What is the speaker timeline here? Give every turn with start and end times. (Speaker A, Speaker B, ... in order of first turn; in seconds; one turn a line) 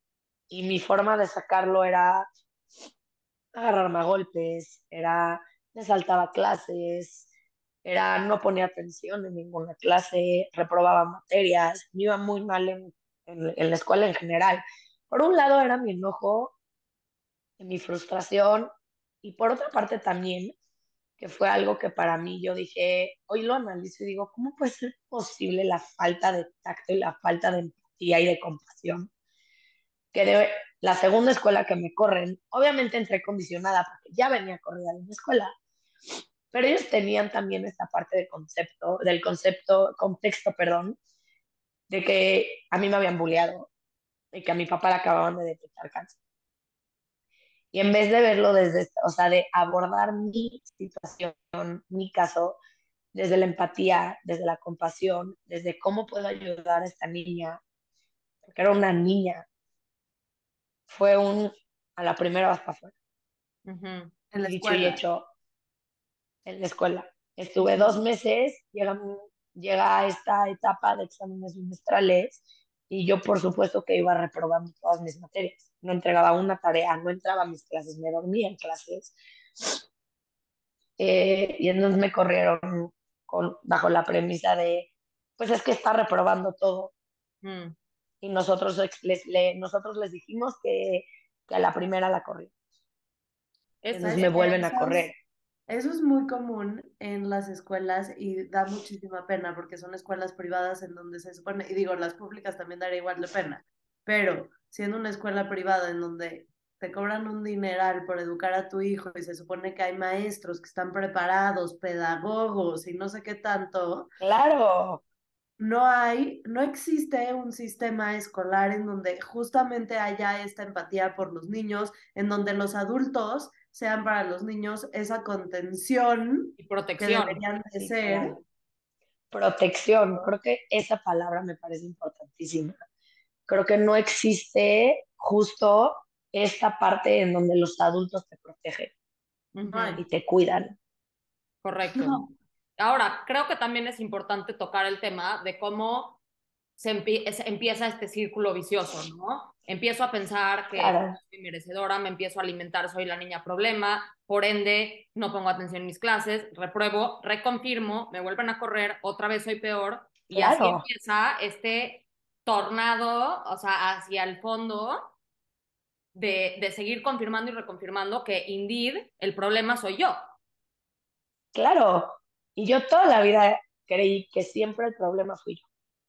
Speaker A: 0.5-2.2
Speaker A: 3.5-7.3
Speaker A: 7.8-16.5
Speaker A: 17.6-18.7
Speaker A: 19.2-20.5
Speaker A: 21.2-29.1
Speaker A: 30.1-35.5
Speaker A: 36.5-41.0
Speaker A: 41.9-43.7
Speaker A: 44.3-46.1
Speaker A: 47.7-52.6
Speaker A: 53.1-57.6
Speaker A: 58.5-59.4
Speaker A: 60.9-62.9
Speaker B: 63.6-64.1
Speaker C: 64.3-65.0
Speaker A: 64.4-65.2
Speaker A: 66.4-79.8
Speaker C: 67.6-67.9
Speaker A: 81.0-86.9
Speaker B: 87.4-87.7
Speaker A: 88.2-92.5
Speaker B: 93.8-94.3
Speaker A: 93.9-95.1
Speaker C: 94.0-95.1
Speaker C: 95.7-114.1
Speaker A: 114.2-115.0
Speaker C: 115.6-128.3
Speaker B: 126.6-127.4
Speaker A: 127.7-128.4
Speaker A: 129.3-132.8
Speaker A: 133.5-138.9
Speaker B: 139.5-140.0
Speaker C: 139.7-140.0
Speaker A: 140.0-140.7
Speaker B: 141.6-142.2
Speaker B: 142.8-146.2
Speaker B: 146.8-165.1
Speaker A: 150.7-151.2
Speaker A: 160.3-160.8
Speaker B: 166.1-170.2
Speaker A: 171.5-175.6